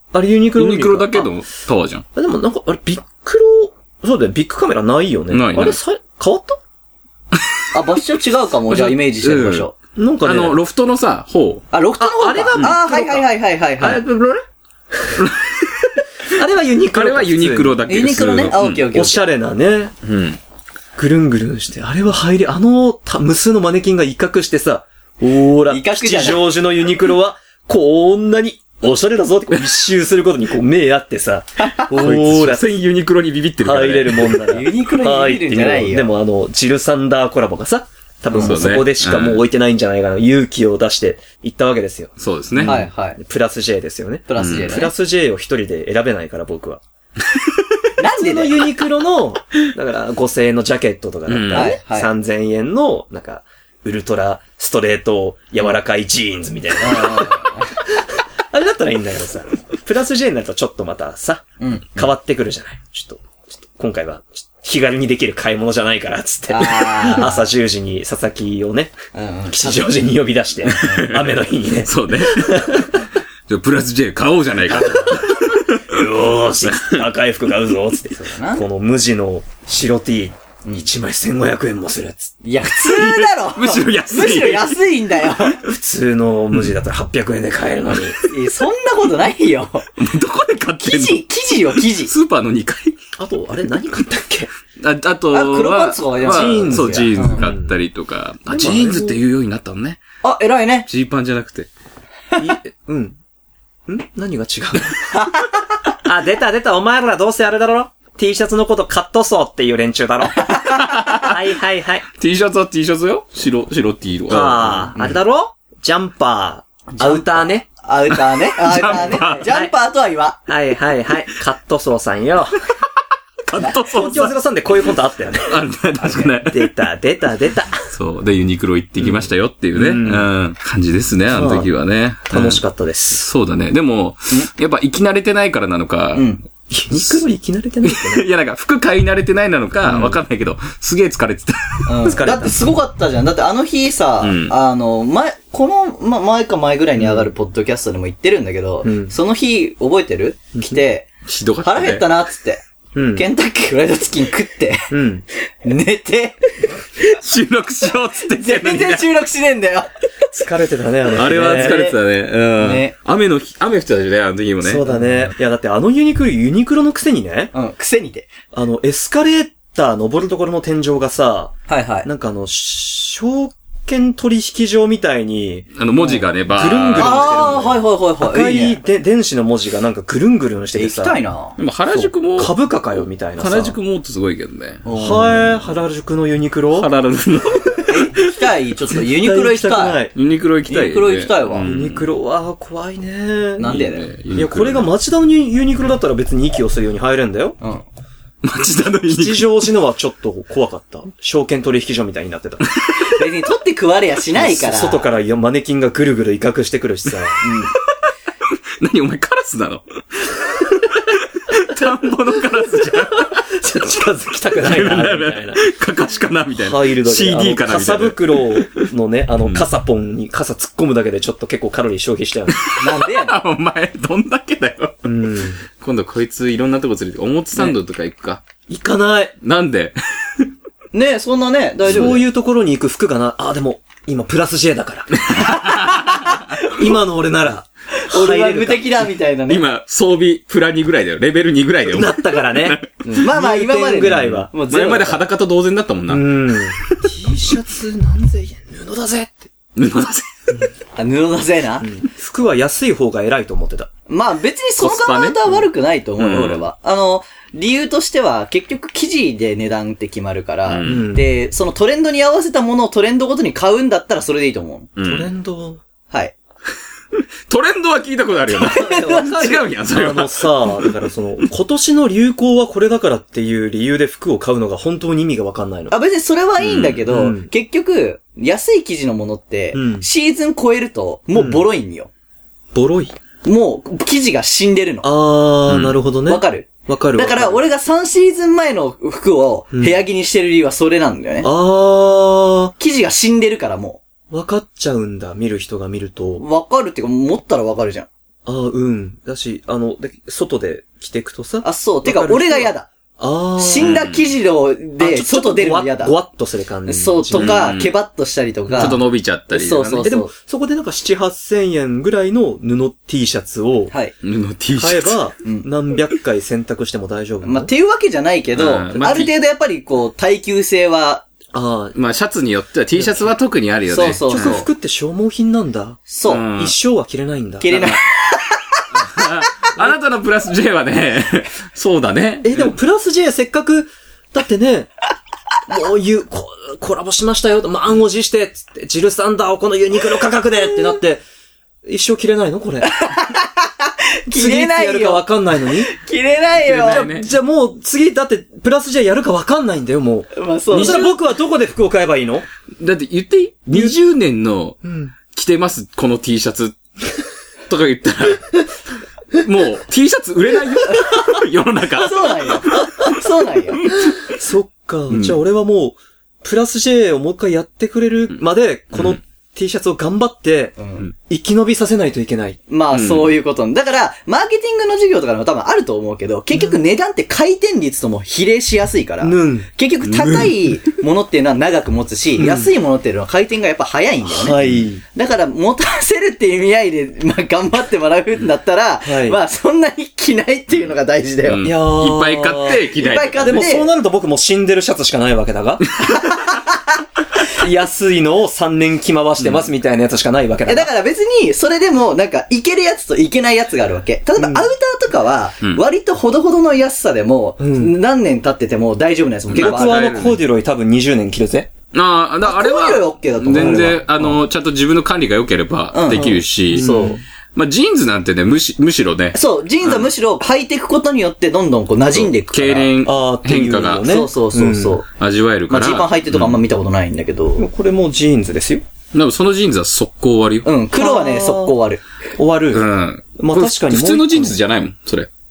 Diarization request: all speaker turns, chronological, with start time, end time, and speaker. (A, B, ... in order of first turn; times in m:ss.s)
0:00.1-0:01.3 A
0:00.6-0:02.0 B
0:02.1-0:06.6 A
0:05.3-0:05.8 B
0:07.7-0:09.7 C
0:08.7-0:11.6 B
0:10.0-0:10.6 A
0:11.7-0:14.0 C
0:12.0-0:13.2 A
0:13.8-0:14.2 A
0:15.2-0:16.0 B
0:16.3-0:17.8 A
0:16.9-0:18.8 B
0:17.8-0:19.2 C
0:18.9-0:19.9 A
0:20.0-0:20.4 B
0:21.0-0:32.7 A
0:25.7-0:26.4 C
0:31.6-0:31.9 C
0:31.9-0:34.4 B
0:33.6-0:46.8 A
0:34.5-0:36.1 C
0:38.3-0:38.6 C
0:38.3-0:39.4 B
0:42.2-0:42.8 B
0:42.6-0:43.2 C
0:44.3-0:44.9 C
0:44.4-0:44.7 B
0:48.0-0:48.7 C
0:48.0-1:08.9 A
0:51.3-0:51.8 B
0:51.5-0:52.1 C
0:56.8-0:57.7 C
1:01.6-1:01.9 C
1:06.5-1:07.5 C
1:09.1-1:09.9 C
1:09.5-1:13.0 A
1:10.6-1:16.0 B
1:14.7-1:15.2 C
1:14.7-1:22.3 A
1:16.7-1:17.0 B
1:18.1-1:18.6 C
1:22.4-1:25.6 C
1:22.6-1:24.8 B
1:25.6-1:28.2 A
1:28.0-1:28.3 B
1:28.2-1:29.9 C
1:30.0-1:31.2 B
1:30.8-1:32.1 C
1:31.8-1:33.0 B
1:33.2-1:34.5 A
1:34.8-1:40.0 B
1:35.3-1:37.4 C
1:36.2-1:37.7 A
1:38.5-1:39.2 A
1:40.2-1:40.9 C
1:40.9-1:41.7 B
1:42.4-1:43.2 A
1:43.9-1:45.1 A
1:45.1-1:45.5 C
1:46.0-1:50.5 A
1:50.4-1:51.0 C
1:50.7-1:51.4 B
1:51.1-1:52.0 A
1:52.2-1:55.1 B
1:54.3-1:57.6 A
1:56.9-2:00.4 C
1:58.1-1:59.5 B
1:59.4-1:59.7 A
2:00.5-2:02.6 A
2:03.5-2:04.3 B
2:03.9-2:07.8 A
2:05.4-2:06.7 B
2:07.9-2:16.3 B
2:09.0-2:10.3 A
2:11.3-2:11.7 A
2:12.3-2:13.2 A
2:16.1-2:16.4 C
2:16.7-2:18.2 A
2:16.9-2:17.2 B
2:17.8-2:21.9 B
2:19.8-2:20.2 A
2:21.9-2:31.1 C
2:22.0-2:22.6 A
2:24.2-2:24.5 B
2:27.0-2:27.3 A
2:28.8-2:29.1 A
2:30.5-2:30.8 A
2:31.2-2:32.1 B
2:31.6-2:34.9 C
2:32.9-2:33.2 A
2:34.9-2:35.2 A
2:35.6-2:36.4 C
2:37.0-2:39.1 B
2:38.3-2:40.4 C
2:40.3-2:41.9 A
2:41.1-2:44.8 B
2:41.3-2:42.0 C
2:42.6-2:42.9 C
2:44.6-2:47.5 A
2:47.5-2:48.3 C
2:48.5-2:51.5 A
2:51.7-2:52.1 C
2:52.0-3:01.2 A
2:55.7-2:57.6 B
2:57.0-2:58.8 C
3:00.7-3:01.6 C
3:01.6-3:04.8 B
3:01.9-3:03.8 A
3:04.8-3:05.6 C
3:04.9-3:06.9 A
3:06.8-3:08.1 B
3:07.9-3:10.0 C
3:08.9-3:10.1 A
3:10.1-3:12.1 B
3:10.7-3:11.6 C
3:11.6-3:13.7 A
3:13.6-3:14.1 C
3:13.6-3:14.9 B
3:14.3-3:17.6 A
3:18.4-3:19.7 B
3:19.1-3:22.6 A
3:23.1-3:25.0 C
3:24.4-3:27.4 A
3:27.4-3:27.7 C
3:28.8-3:33.5 B
3:33.2-3:35.6 A
3:34.6-3:38.9 B
3:36.5-3:42.6 A
3:42.5-3:45.0 B
3:42.8-3:43.3 C
3:45.0-3:45.6 A
3:45.8-3:48.4 B
3:48.7-3:49.3 A
3:49.4-3:50.5 B
3:50.9-3:52.3 C
3:51.8-3:55.5 A
3:55.3-3:56.5 B
3:55.4-3:56.9 C
3:56.7-3:59.0 A
3:58.0-3:59.6 C
3:59.5-4:03.3 B
4:01.8-4:04.5 A
4:03.2-4:05.2 C
4:04.2-4:07.0 B
4:06.1-4:09.5 A
4:09.8-4:10.6 B
4:11.0-4:11.9 C
4:11.8-4:13.9 A
4:14.1-4:24.9 C
4:14.8-4:15.7 B
4:16.2-4:16.6 B
4:20.7-4:21.1 B
4:20.8-4:21.3 A
4:25.0-4:25.3 B
4:25.0-4:25.8 A
4:27.5-4:30.9 B
4:28.5-4:29.6 C
4:28.6-4:35.9 A
4:35.9-4:42.1 C
4:36.6-4:37.0 B
4:37.1-4:37.5 A
4:39.7-4:40.0 A
4:41.3-4:41.6 A
4:42.7-4:43.1 A
4:43.4-4:45.1 C
4:45.0-4:47.6 A
4:45.7-4:46.0 B
4:46.3-4:51.5 C
4:51.4-4:52.7 A
4:52.8-4:54.0 C
4:54.3-4:56.4 A
4:56.4-4:58.1 C
4:58.4-5:04.0 A
5:01.6-5:02.9 C
5:03.6-5:06.1 C
5:03.8-5:04.3 B
5:05.0-5:07.7 A
5:06.8-5:10.3 C
5:07.3-5:07.9 B
5:08.7-5:09.0 A
5:08.8-5:10.1 B
5:10.0-5:13.9 A
5:14.2-5:15.2 B
5:14.8-5:17.7 A
5:17.4-5:21.2 C
5:18.6-5:19.3 B
5:21.5-5:21.9 A
5:21.9-5:24.6 B
5:22.9-5:23.3 A
5:23.9-5:24.7 C
5:24.3-5:26.0 A
5:26.1-5:26.4 C
5:26.3-5:26.7 B
5:26.6-5:27.9 A
5:27.6-5:29.2 C
5:27.7-5:28.0 B
5:28.9-5:32.7 B
5:32.4-5:34.9 A
5:35.7-5:41.2 A
5:41.8-5:42.9 A
5:42.8-5:47.1 C
5:44.3-5:45.9 A
5:46.6-5:47.3 B
5:46.8-5:52.4 A
5:50.3-5:51.0 C
5:50.7-5:51.1 B
5:52.8-5:54.8 B
5:53.7-5:54.0 A
5:54.8-5:55.1 A
5:55.3-5:56.7 B
5:57.7-5:58.6 B
5:59.3-6:02.9 B
6:01.9-6:03.8 C
6:03.8-6:04.3 B
6:04.0-6:12.6 A
6:08.9-6:09.2 B
6:10.8-6:11.1 C
6:12.7-6:24.6 C
6:12.9-6:13.3 B
6:19.2-6:19.7 A
6:22.4-6:22.7 A
6:24.2-6:25.0 A
6:25.1-6:31.6 C
6:29.0-6:29.4 A
6:31.4-6:33.7 B
6:31.6-6:35.8 A
6:32.9-6:33.9 C
6:36.0-6:37.0 C
6:37.5-6:40.9 A
6:39.4-6:39.7 B
6:40.6-6:50.2 C
6:44.4-6:44.7 A
6:47.6-6:47.9 A
6:49.5-6:50.4 B
6:49.5-6:51.7 A
6:51.9-6:56.9 B
6:52.4-6:54.0 C
6:53.5-6:54.4 A
6:55.9-6:57.2 C
6:56.1-6:57.2 A
6:57.5-7:00.1 B
6:59.3-7:02.9 C
7:02.1-7:04.1 B
7:03.0-7:05.0 A
7:04.0-7:05.0 C
7:05.2-7:06.6 B
7:05.7-7:07.6 C
7:07.6-7:08.8 A
7:09.1-7:10.7 B
7:10.6-7:12.0 C
7:11.0-7:11.7 A
7:12.4-7:12.8 A
7:12.7-7:15.3 B
7:13.4-7:14.6 A